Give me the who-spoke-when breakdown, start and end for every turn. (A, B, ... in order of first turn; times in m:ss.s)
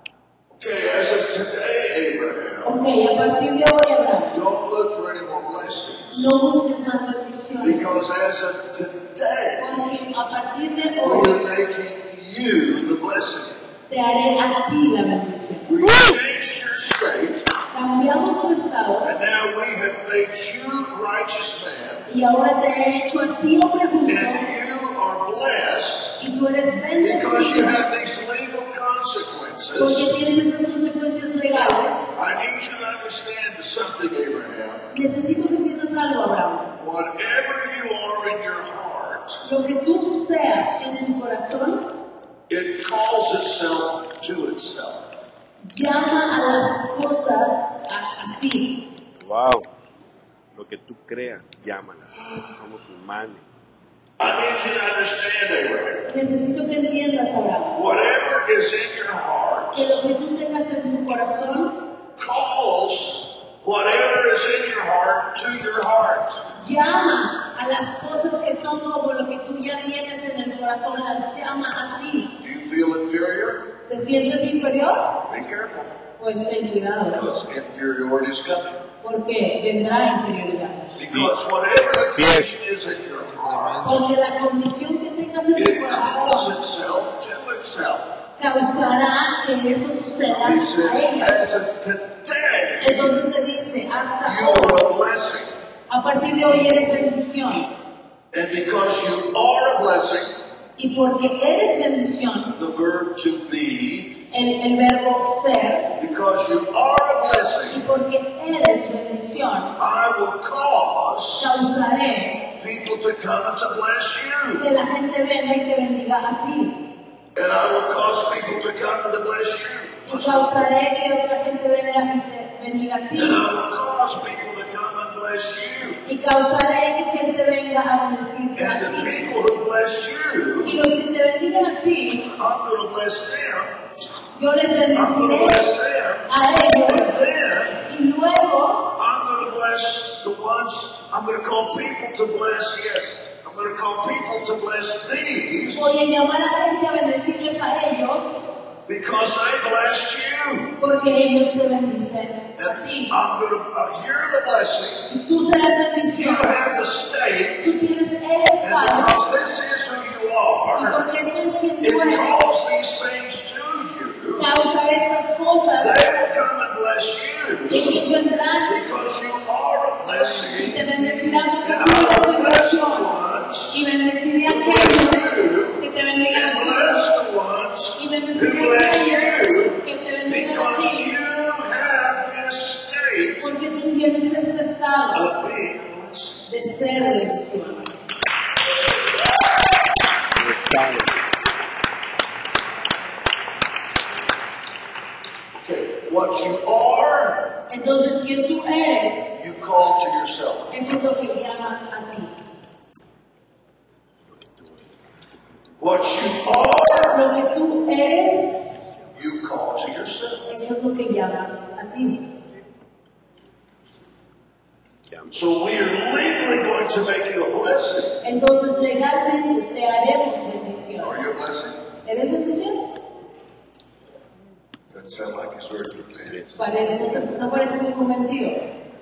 0:00.6-0:02.8 A
0:02.6-0:04.4 B
0:04.3-0:06.4 A
0:06.1-0:07.9 B
0:07.6-0:09.7 A
0:09.6-0:11.4 B
0:11.0-0:13.6 A
0:13.9-0:15.7 B
0:15.7-0:17.5 A
0:17.7-0:19.1 B
0:19.0-0:22.1 A
0:22.1-0:24.4 B
0:24.1-0:26.2 A
0:26.2-0:27.8 B
0:27.0-0:30.1 A
0:29.8-0:32.0 B
0:31.5-0:34.9 A
0:34.9-0:36.7 B
0:36.8-0:39.4 A
0:39.4-0:41.9 B
0:42.5-0:45.1 A
0:45.7-0:48.8 B
0:49.2-0:49.7 C
0:50.6-0:53.4 C
0:54.2-0:56.1 A
0:56.1-0:57.8 B
0:57.7-1:00.0 A
0:59.7-1:01.8 B
1:02.2-1:06.4 A
1:06.6-1:12.3 B
1:12.4-1:13.7 A
1:13.9-1:15.2 B
1:15.3-1:16.0 A
1:16.2-1:17.4 B
1:17.1-1:18.9 A
1:19.0-1:20.9 B
1:21.0-1:24.0 A
1:22.2-1:22.4 C
1:23.5-1:23.8 C
1:23.8-1:26.6 B
1:25.5-1:28.2 A
1:28.4-1:31.5 B
1:30.2-1:33.2 A
1:32.8-1:34.8 B
1:34.2-1:35.5 A
1:35.9-1:37.7 B
1:38.3-1:40.3 A
1:40.8-1:42.5 B
1:42.6-1:44.2 A
1:44.3-1:45.9 B
1:46.0-1:47.8 A
1:47.7-1:49.8 B
1:49.8-1:51.5 A
1:51.4-1:52.4 B
1:52.6-1:54.7 A
1:54.6-1:56.8 B
1:57.4-2:00.7 A
2:00.1-2:03.5 B
2:03.1-2:06.0 A
2:06.0-2:09.4 B
2:08.6-2:10.8 A
2:10.6-2:12.3 B
2:12.3-2:13.8 A
2:14.4-2:15.7 B
2:14.9-2:16.3 A
2:16.3-2:17.1 B
2:16.8-2:17.8 A
2:17.9-2:18.9 B
2:19.0-2:25.9 A
2:25.7-2:28.4 B
2:28.9-2:30.8 A
2:30.8-2:33.2 B
2:32.6-2:35.1 A
2:35.1-2:36.6 B
2:36.1-2:37.7 A
2:37.6-2:39.2 B
2:38.6-2:41.1 A
2:40.7-2:42.3 B
2:41.8-2:44.6 A
2:44.4-2:46.0 B
2:45.8-2:53.8 A
2:47.7-2:48.8 B
2:50.6-2:53.1 B
2:53.7-2:57.0 B
2:54.4-3:03.5 A
2:58.0-3:01.1 B
3:03.4-3:05.2 B
3:05.1-3:06.4 A
3:06.5-3:07.9 B
3:10.3-3:11.1 C
3:15.6-3:17.5 A
3:17.7-3:19.3 B
3:19.3-3:20.8 A
3:20.7-3:22.3 B
3:25.8-3:27.2 A
3:27.1-3:28.7 B
3:29.1-3:30.5 A
3:30.5-3:32.3 B
3:35.3-3:38.2 A
3:38.2-3:41.2 B
3:41.0-3:41.8 A
3:42.0-3:42.9 B
3:44.9-3:46.4 A
3:46.6-3:48.6 B